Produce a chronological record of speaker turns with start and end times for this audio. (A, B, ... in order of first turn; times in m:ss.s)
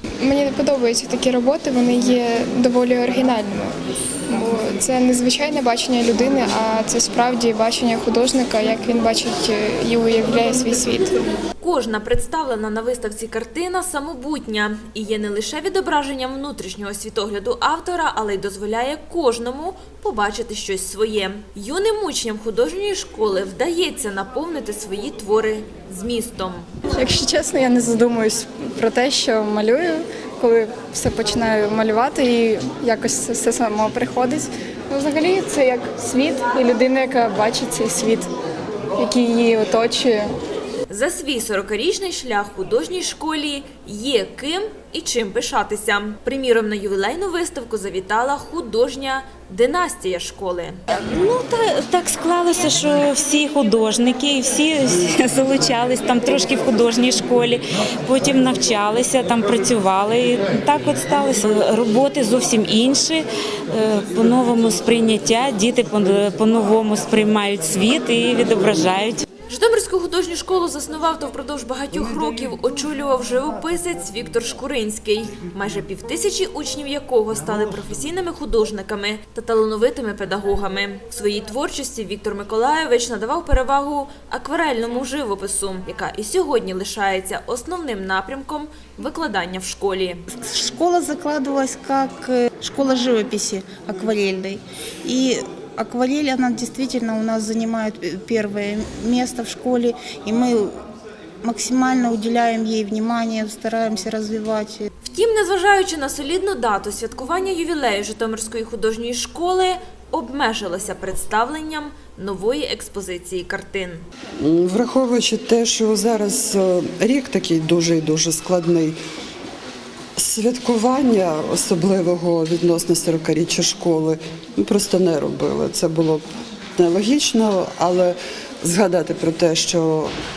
0:00.2-0:03.7 A
0:04.3-0:11.2 A
0:11.6-0:26.7 B
0:27.0-0:38.3 C
0:39.0-0:40.2 C
0:40.9-0:50.8 B
0:50.9-1:09.2 D
1:09.5-1:30.2 B
1:30.4-1:40.7 E
1:41.4-1:44.9 E
1:45.0-1:54.0 B
1:54.4-1:59.0 F
2:00.2-2:06.2 F
2:06.8-2:10.1 F